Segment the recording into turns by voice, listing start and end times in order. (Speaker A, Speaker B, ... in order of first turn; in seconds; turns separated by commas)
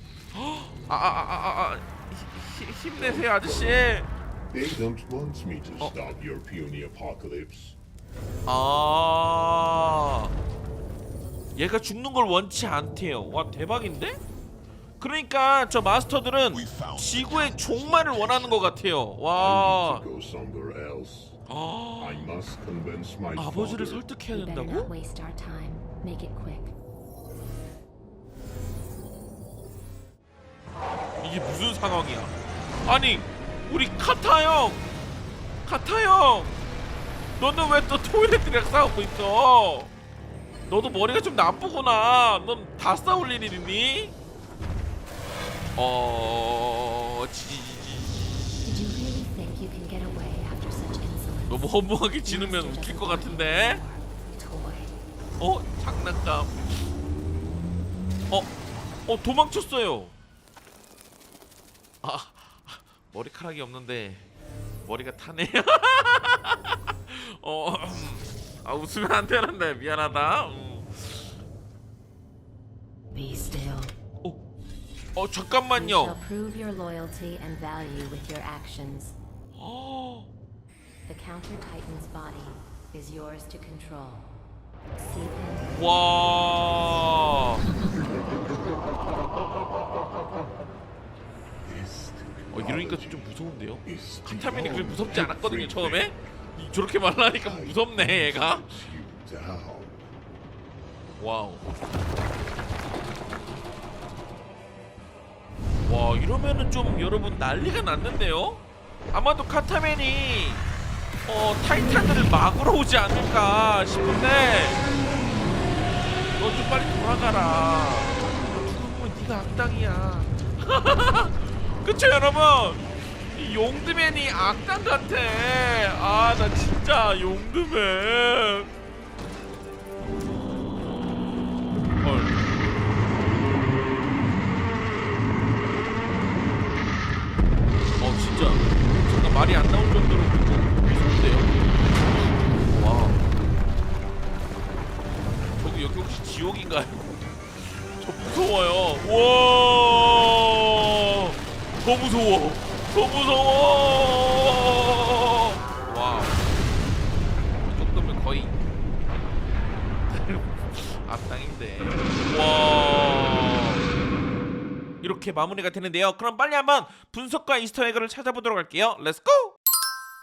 Speaker A: 0.3-4.1, Speaker B: 3.0-3.9, Speaker B: 4.5-7.8, Speaker A: 8.5-10.3, Speaker A: 11.6-14.2, Speaker A: 15.0-20.0, Speaker B: 19.4-21.4, Speaker A: 21.5-22.4, Speaker B: 22.0-24.1, Speaker A: 23.4-24.9, Speaker C: 24.3-26.7, Speaker A: 31.2-32.3, Speaker A: 32.8-34.8, Speaker A: 35.6-36.5, Speaker A: 37.4-39.9, Speaker A: 40.7-44.1, Speaker A: 45.8-48.2, Speaker C: 48.6-55.0, Speaker A: 51.5-53.8, Speaker A: 55.4-56.7, Speaker A: 59.1-60.1, Speaker A: 62.0-64.3, Speaker A: 64.8-71.3, Speaker C: 73.1-73.9, Speaker A: 75.2-76.2, Speaker C: 75.7-79.2, Speaker A: 79.5-80.3, Speaker C: 81.1-84.3, Speaker C: 85.0-85.8, Speaker A: 85.7-87.7, Speaker C: 87.7-88.0, Speaker B: 87.9-88.9, Speaker B: 91.6-93.3, Speaker A: 92.5-98.9, Speaker B: 93.8-96.1, Speaker B: 97.4-100.0, Speaker A: 101.2-101.7, Speaker A: 105.8-108.6, Speaker A: 109.1-110.7, Speaker A: 111.3-114.8, Speaker A: 116.4-122.8, Speaker A: 123.3-128.7, Speaker A: 132.0-132.4, Speaker A: 138.0-143.2, Speaker A: 145.6-147.2, Speaker A: 147.8-156.4, Speaker A: 157.7-158.6, Speaker A: 160.1-163.8, Speaker A: 165.0-169.6